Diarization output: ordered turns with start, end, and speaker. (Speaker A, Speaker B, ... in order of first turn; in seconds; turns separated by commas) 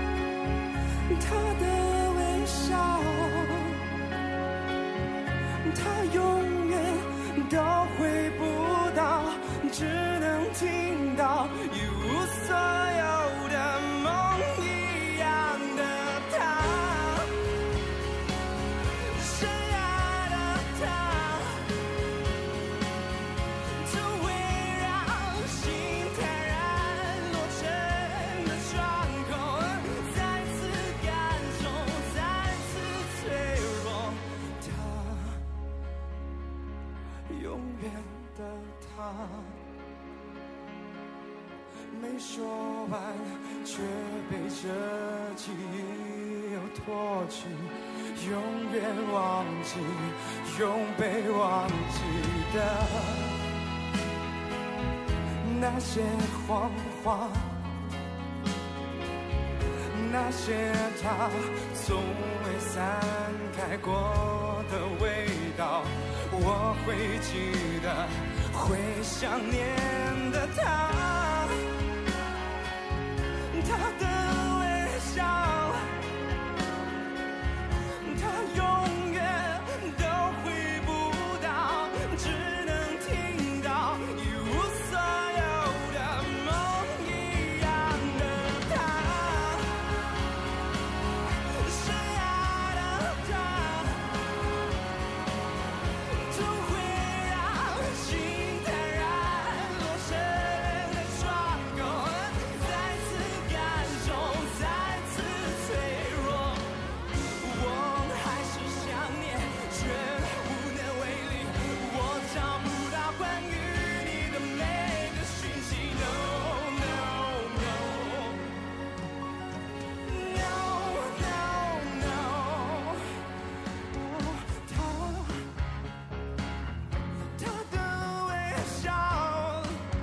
Speaker A: 1.1-3.8, Speaker A: 5.6-17.3, Speaker A: 19.1-21.6, Speaker A: 23.8-35.4, Speaker A: 37.3-39.6, Speaker A: 41.9-53.4, Speaker A: 55.4-57.5, Speaker A: 59.9-71.6, Speaker A: 73.5-75.8, Speaker A: 78.0-89.7, Speaker A: 91.5-94.0, Speaker A: 96.2-106.7, Speaker A: 107.4-118.5, Speaker A: 120.0-123.0, Speaker A: 123.9-125.4, Speaker A: 127.3-129.8